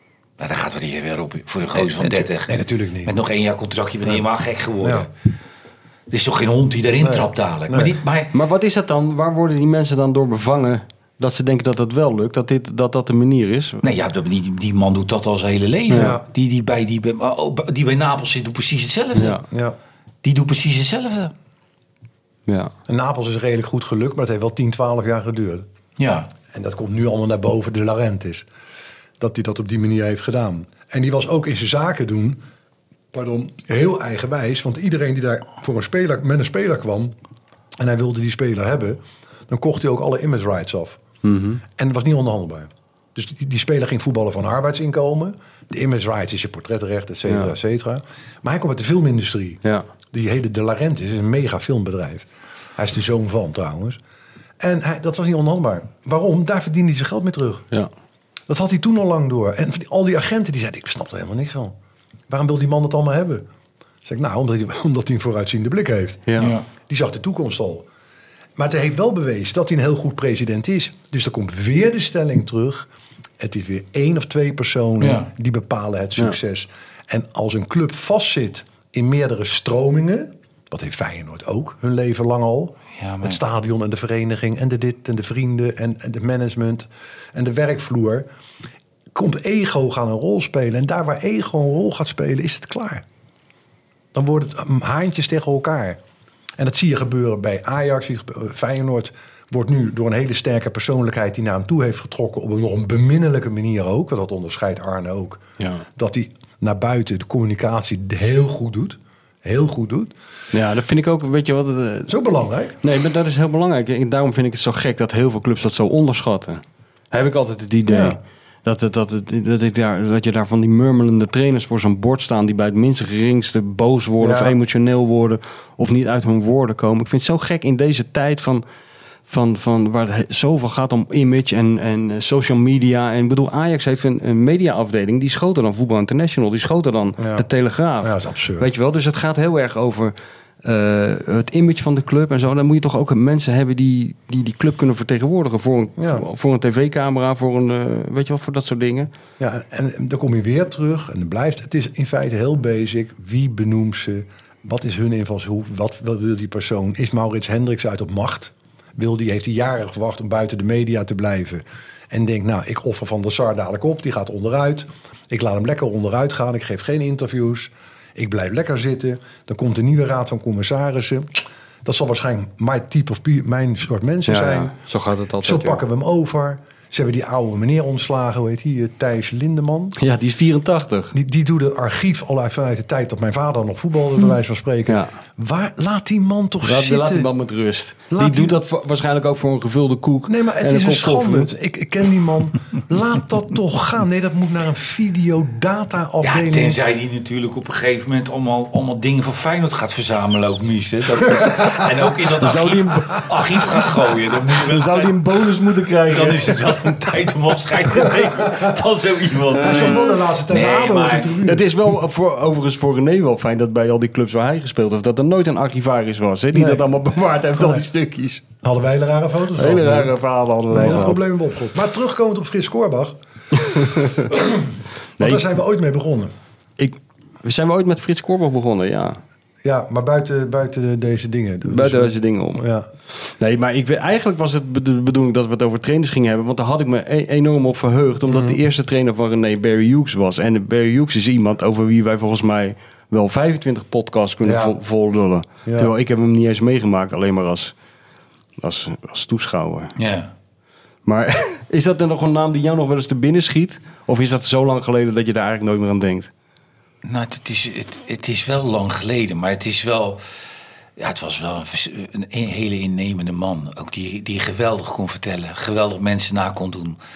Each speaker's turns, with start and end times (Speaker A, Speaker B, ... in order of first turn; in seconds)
Speaker A: 0.4-5.1, 6.1-8.3, 13.8-19.4, 20.2-21.3, 26.0-26.3, 66.4-66.7, 75.0-75.3, 83.0-83.4, 196.2-205.4, 206.1-211.4, 249.9-250.3, 257.0-260.2, 261.0-267.0
Speaker B: 1.8-3.1, 4.8-5.1, 7.0-8.0, 15.9-16.2, 19.5-19.8, 22.9-25.7, 26.5-28.4, 29.2-32.4, 33.1-37.1, 37.8-41.0, 41.8-52.2, 52.8-54.0, 54.6-57.7, 58.5-61.7, 62.3-63.5, 64.0-67.9, 68.6-72.9, 73.4-88.3, 89.1-93.0, 94.1-96.0, 96.6-105.4, 106.0-110.1, 112.1-112.8, 117.8-118.2, 124.2-124.5, 137.2-137.4, 138.0-138.7, 146.0-146.2, 149.4-174.7, 175.4-179.9, 181.1-187.3, 188.1-188.6, 190.3-196.8, 209.6-211.6, 216.5-216.8, 217.5-217.8, 218.6-220.1, 220.7-223.2, 223.7-224.7, 225.2-226.3, 229.6-232.9, 238.3-238.6, 244.4-244.8, 245.6-245.9
Speaker C: 8.3-13.8, 15.9-16.1, 19.1-19.4, 22.5-22.7, 41.2-41.6, 47.2-47.5, 105.6-105.8, 110.5-112.1, 112.8-128.6, 129.3-149.1, 174.3-175.8, 180.0-181.1, 184.9-185.1, 186.6-191.5, 202.4-203.8, 204.5-206.9, 211.4-218.4, 219.6-221.2, 223.6-224.3, 225.2-225.5, 226.8-229.2, 231.6-232.6, 233.2-247.7, 248.6-249.9, 251.1-256.3